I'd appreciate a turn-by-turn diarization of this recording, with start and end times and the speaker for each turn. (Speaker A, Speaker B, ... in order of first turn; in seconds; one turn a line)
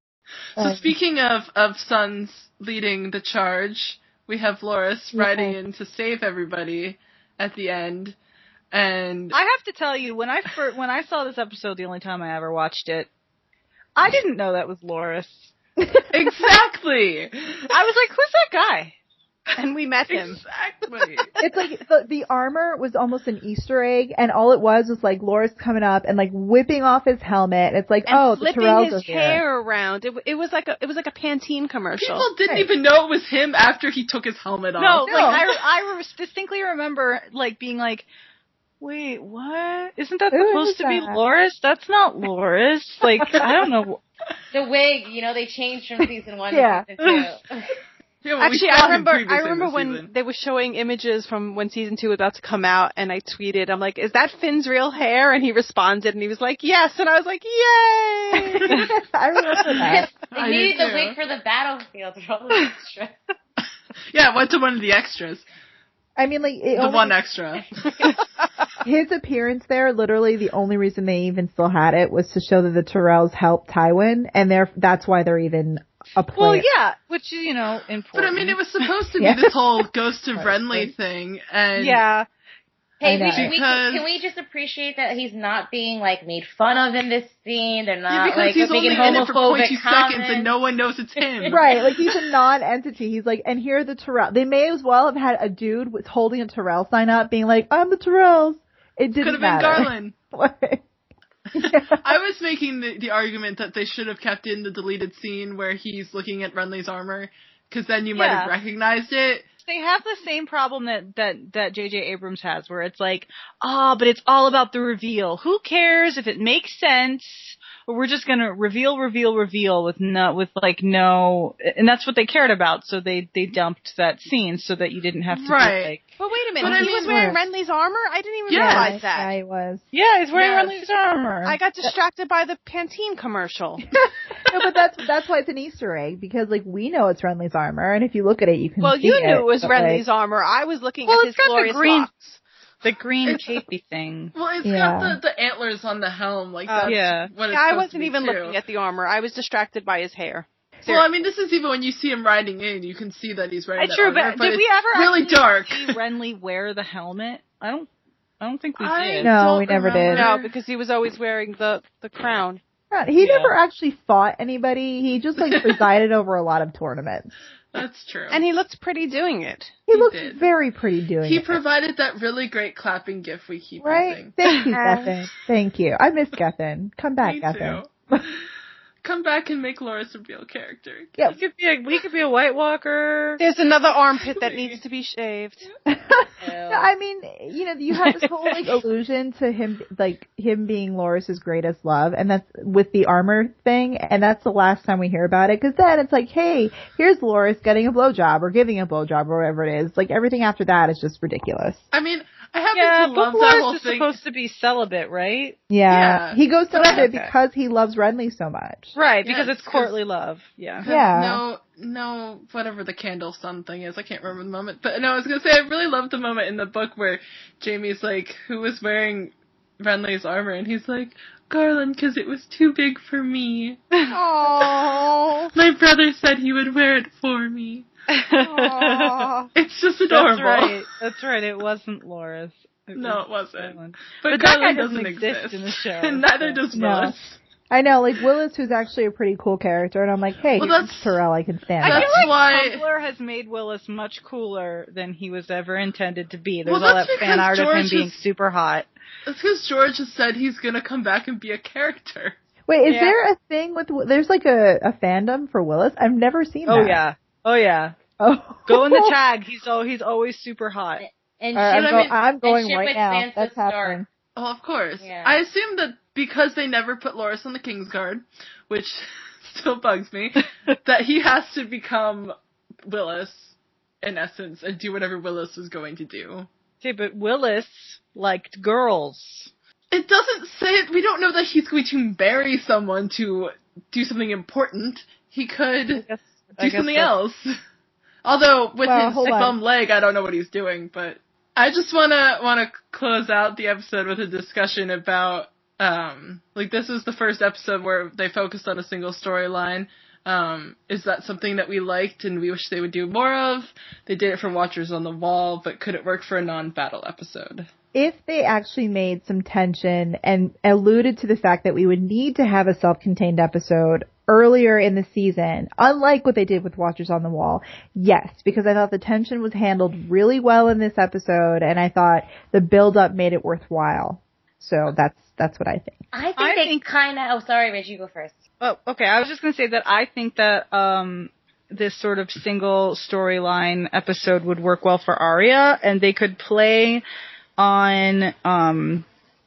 Speaker A: 0.6-8.2
Speaker B: 0.6-0.9
Speaker B: 5.1-5.5
Speaker A: 8.7-9.4
Speaker C: 9.3-13.1
Speaker C: 14.0-15.5
Speaker A: 16.1-17.7
Speaker C: 17.7-19.0
Speaker D: 19.6-20.4
Speaker A: 20.1-21.3
Speaker B: 21.4-29.4
Speaker D: 28.1-32.3
Speaker A: 32.0-35.4
Speaker C: 34.8-38.1
Speaker B: 35.1-35.4
Speaker C: 38.8-44.0
Speaker B: 40.3-41.2
Speaker E: 44.5-47.8
Speaker B: 46.5-46.9
Speaker A: 48.2-50.1
Speaker D: 48.4-58.7
Speaker B: 58.5-60.1
Speaker E: 59.8-63.2
Speaker A: 60.3-61.2
Speaker A: 64.1-65.5
Speaker B: 66.2-67.2
Speaker A: 66.8-68.1
Speaker B: 68.8-76.7
Speaker C: 76.3-78.9
Speaker A: 78.1-82.0
Speaker B: 79.2-79.5
Speaker B: 80.4-80.9
Speaker C: 81.8-82.3
Speaker E: 83.0-90.5
Speaker B: 83.0-83.5
Speaker A: 83.3-84.1
Speaker A: 88.1-91.7
Speaker B: 91.5-100.8
Speaker A: 99.2-100.2
Speaker A: 101.5-109.5
Speaker B: 101.5-102.2
Speaker C: 108.2-108.5
Speaker C: 109.7-126.1
Speaker A: 125.3-126.0
Speaker D: 126.2-129.3
Speaker A: 126.6-127.3
Speaker B: 126.6-127.4
Speaker A: 128.5-129.0
Speaker B: 128.5-129.8
Speaker C: 129.9-131.6
Speaker D: 130.3-130.9
Speaker D: 131.4-133.8
Speaker B: 134.5-140.0
Speaker D: 138.8-142.4
Speaker C: 141.1-142.1
Speaker C: 142.8-144.3
Speaker A: 143.2-143.6
Speaker A: 144.3-148.6
Speaker B: 144.6-145.2
Speaker D: 146.7-151.1
Speaker C: 146.8-147.3
Speaker A: 150.8-155.9
Speaker C: 153.8-157.9
Speaker C: 158.4-159.3
Speaker A: 158.8-160.5
Speaker B: 159.2-160.3
Speaker D: 160.1-162.6
Speaker B: 162.9-167.3
Speaker E: 163.2-163.5
Speaker A: 165.4-165.8
Speaker A: 167.7-168.4
Speaker D: 168.3-169.8
Speaker B: 169.9-171.6
Speaker A: 169.9-170.4
Speaker A: 171.2-174.4
Speaker B: 173.8-178.2
Speaker D: 174.7-175.2
Speaker A: 177.2-178.4
Speaker A: 179.0-181.2
Speaker C: 181.3-183.4
Speaker D: 183.4-185.7
Speaker A: 183.9-184.8
Speaker B: 185.9-201.9
Speaker E: 186.4-186.9
Speaker A: 201.9-204.2
Speaker C: 202.7-205.6
Speaker B: 205.7-208.9
Speaker A: 205.9-207.1
Speaker C: 206.9-207.3
Speaker C: 208.9-210.9
Speaker A: 209.2-210.0
Speaker A: 210.8-223.8
Speaker B: 210.9-211.4
Speaker D: 224.1-225.5
Speaker A: 225.6-227.9
Speaker C: 228.3-229.3
Speaker D: 228.3-229.5
Speaker A: 229.6-230.8
Speaker C: 230.1-236.7
Speaker A: 232.9-237.4
Speaker B: 236.7-237.2
Speaker B: 237.7-242.3
Speaker A: 240.6-241.2
Speaker C: 241.8-248.9
Speaker A: 241.8-242.8
Speaker A: 246.7-248.2
Speaker A: 249.3-252.4
Speaker B: 252.7-257.0
Speaker C: 256.7-258.0
Speaker B: 258.2-259.1
Speaker C: 258.7-261.1
Speaker E: 261.0-264.0
Speaker B: 261.6-264.1
Speaker A: 264.4-272.4
Speaker E: 265.0-265.4
Speaker A: 272.9-276.5
Speaker C: 276.8-279.5
Speaker A: 279.9-286.1
Speaker C: 286.0-287.1
Speaker A: 286.6-287.5
Speaker A: 288.2-307.7
Speaker B: 288.9-289.6
Speaker B: 307.9-326.0
Speaker E: 326.1-328.4
Speaker C: 326.4-326.9
Speaker C: 328.6-337.0
Speaker C: 337.6-339.1